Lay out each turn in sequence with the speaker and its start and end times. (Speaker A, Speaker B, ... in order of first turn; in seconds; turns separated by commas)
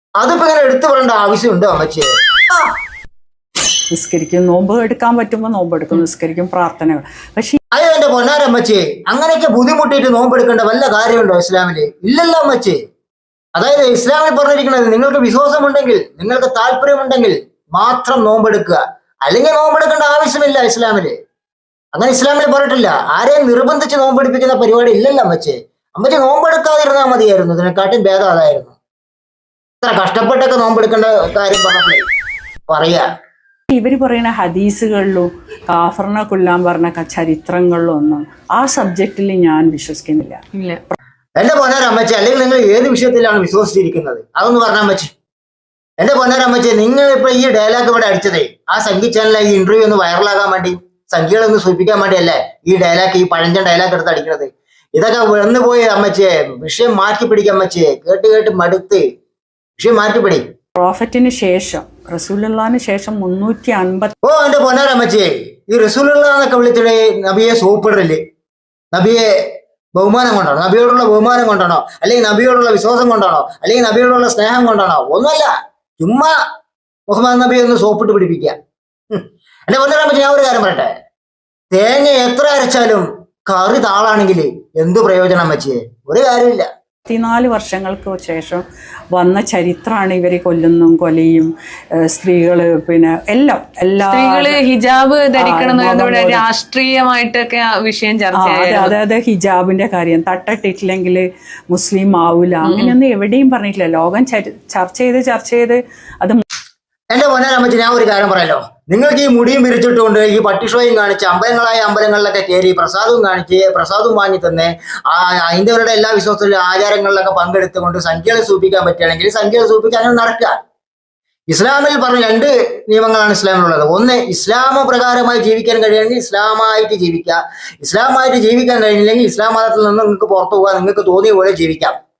Speaker A: 0.2-2.7, Speaker B: 3.9-7.6, Speaker A: 7.7-12.8, Speaker A: 13.6-21.1, Speaker A: 21.9-28.8, Speaker A: 29.8-32.0, Speaker A: 32.7-33.0, Speaker B: 33.7-40.4, Speaker C: 40.5-40.8, Speaker A: 41.4-45.1, Speaker A: 46.0-59.0, Speaker A: 59.8-60.4, Speaker B: 60.7-64.1, Speaker A: 64.2-68.2, Speaker A: 68.9-69.2, Speaker A: 69.9-76.3, Speaker A: 77.1-78.5, Speaker A: 79.1-80.9, Speaker A: 81.7-86.7, Speaker B: 87.1-91.5, Speaker B: 92.1-94.6, Speaker C: 94.0-98.9, Speaker B: 95.4-96.4, Speaker B: 98.3-106.4, Speaker C: 102.6-102.9, Speaker A: 107.1-120.6, Speaker A: 121.5-131.9